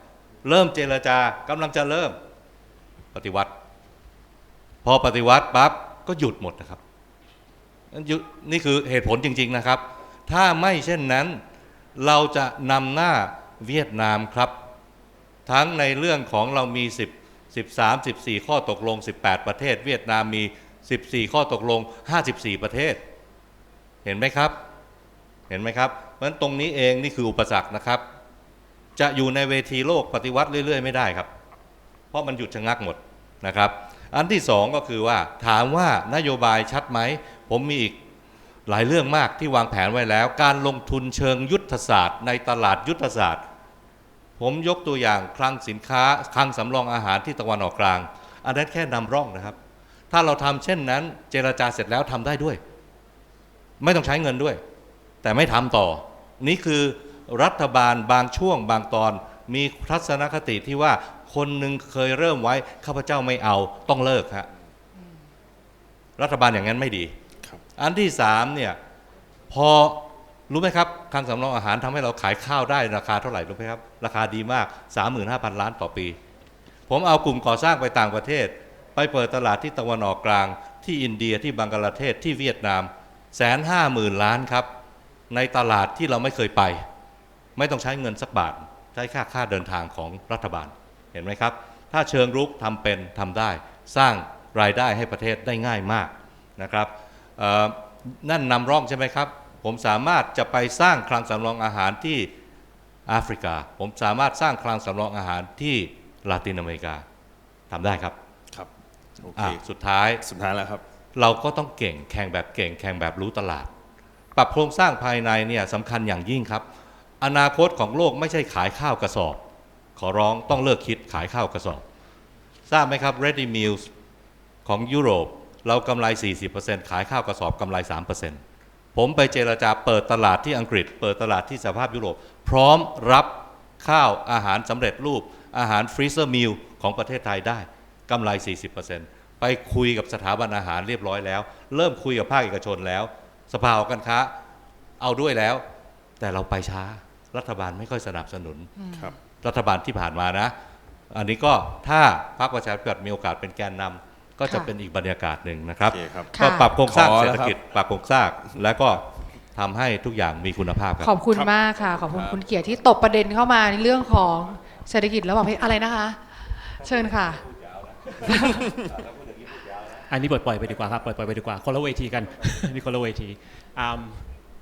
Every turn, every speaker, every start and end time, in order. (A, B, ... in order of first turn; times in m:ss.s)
0:00.4-0:02.2 A
0:03.1-0:03.5 A
0:04.8-0:06.8 A
0:07.9-0:11.4 A
0:12.0-0:14.5 A
0:15.4-0:23.0 A
0:24.0-0:24.6 A
0:25.5-0:28.0 A
0:29.0-0:31.3 A
0:32.1-0:38.0 A
0:38.7-0:43.4 A
0:44.4-0:49.6 A
0:50.1-0:52.6 A
0:53.8-0:54.6 A
0:55.2-1:04.5 A
1:06.2-1:07.1 A
1:07.8-1:08.8 A
1:09.5-1:16.2 A
1:16.9-1:24.7 A
1:25.3-1:26.8 A
1:27.6-1:42.3 A
1:43.1-1:47.0 A
1:47.7-1:48.2 A
1:48.5-1:49.6 B
1:49.3-1:50.2 A
1:50.2-1:50.8 B
1:51.2-1:53.7 A
1:54.3-1:56.6 A
1:57.2-1:59.4 A
2:00.0-2:01.8 A
2:02.7-2:03.9 A
2:04.6-2:08.4 A
2:08.9-2:24.3 A
2:25.0-2:25.6 A
2:26.2-2:28.7 A
2:28.8-2:29.1 C
2:29.4-2:30.5 A
2:31.1-2:39.0 A
2:35.9-2:37.6 B
2:36.3-2:36.8 C
2:39.5-2:41.2 A
2:41.0-2:47.4 C
2:41.3-2:41.5 B
2:42.1-2:42.4 B
2:48.2-2:48.7 C
2:50.1-2:54.2 D